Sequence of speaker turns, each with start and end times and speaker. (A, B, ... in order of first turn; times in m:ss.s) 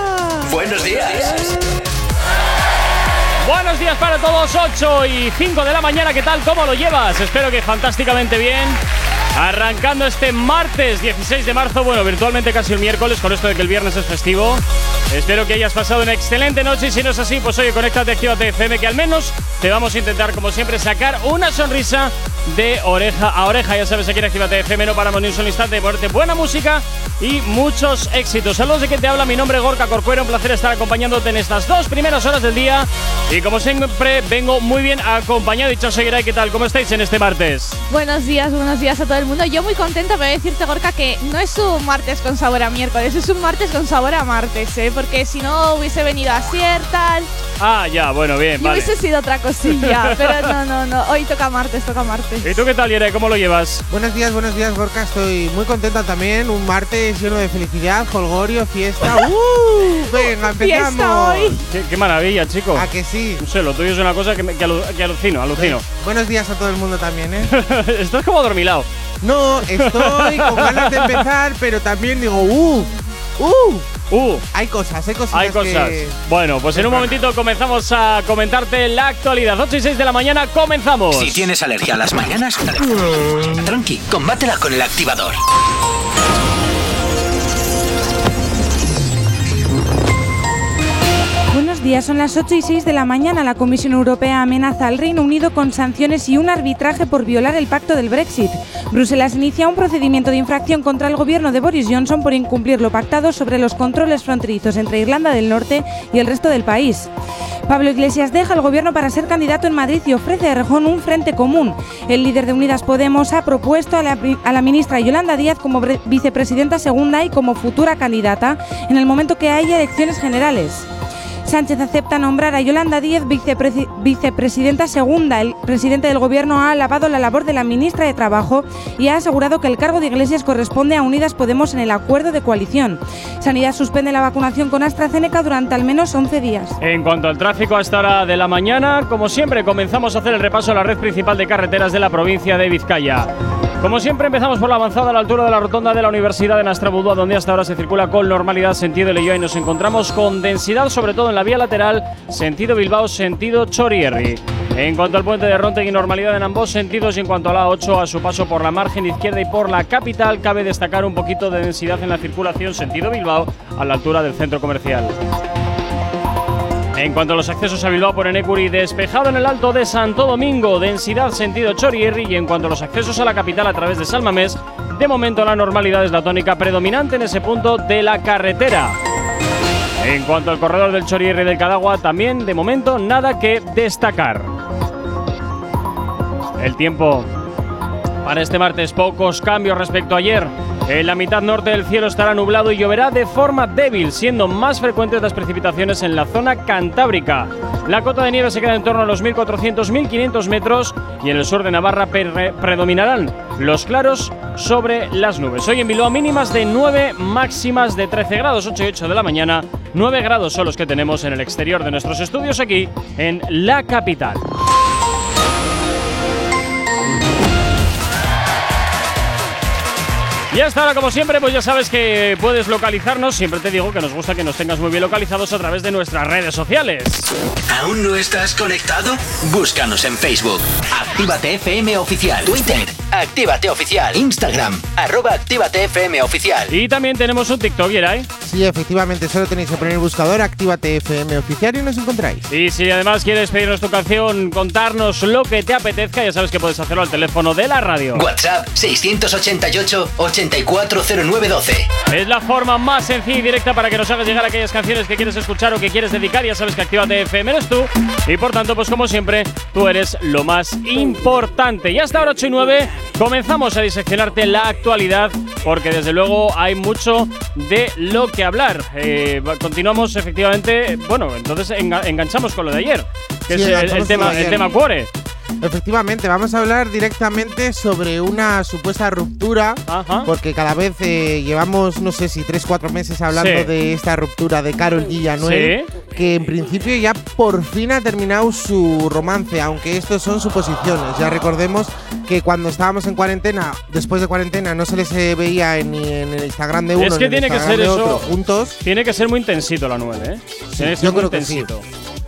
0:00.4-0:01.6 A
0:03.4-0:08.8 B
0:09.3-0:37.8 B
0:37.9-0:47.3 C
0:47.6-0:48.9 B
0:48.6-0:52.5 C
0:49.8-0:50.5 B
0:52.4-0:53.8 B
0:53.9-1:01.6 D
1:00.6-1:01.6 C
1:01.7-1:02.8 B
1:02.7-1:03.4 D
1:03.4-1:05.8 B
1:05.6-1:07.5 D
1:07.5-1:08.9 B
1:09.2-1:13.8 D
1:09.7-1:11.2 B
1:14.1-1:14.4 B
1:14.5-1:16.2 D
1:15.3-1:21.4 B
1:16.7-1:17.2 D
1:21.1-1:25.4 A
1:31.5-1:47.1 E
1:47.7-2:00.8 E
2:01.4-2:16.8 E
2:16.8-2:23.3 B
2:23.8-2:45.1 B
2:47.0-2:59.0 B
3:00.0-3:04.5 B
3:06.6-3:07.3 B
3:08.2-3:34.4 B
3:40.5-3:47.3 B
3:47.7-3:56.7 A
3:56.7-3:58.3 B
3:58.4-4:02.5 D
4:02.5-4:08.2 B
4:08.1-4:11.9 A
4:12.1-4:35.1 B
4:33.5-4:34.7 D
4:35.6-4:58.8 D
4:39.9-4:40.3 B
4:43.3-4:43.7 B
4:45.4-4:45.9 B
4:57.0-4:58.3 B
4:58.8-5:01.8 B
5:00.7-5:01.7 D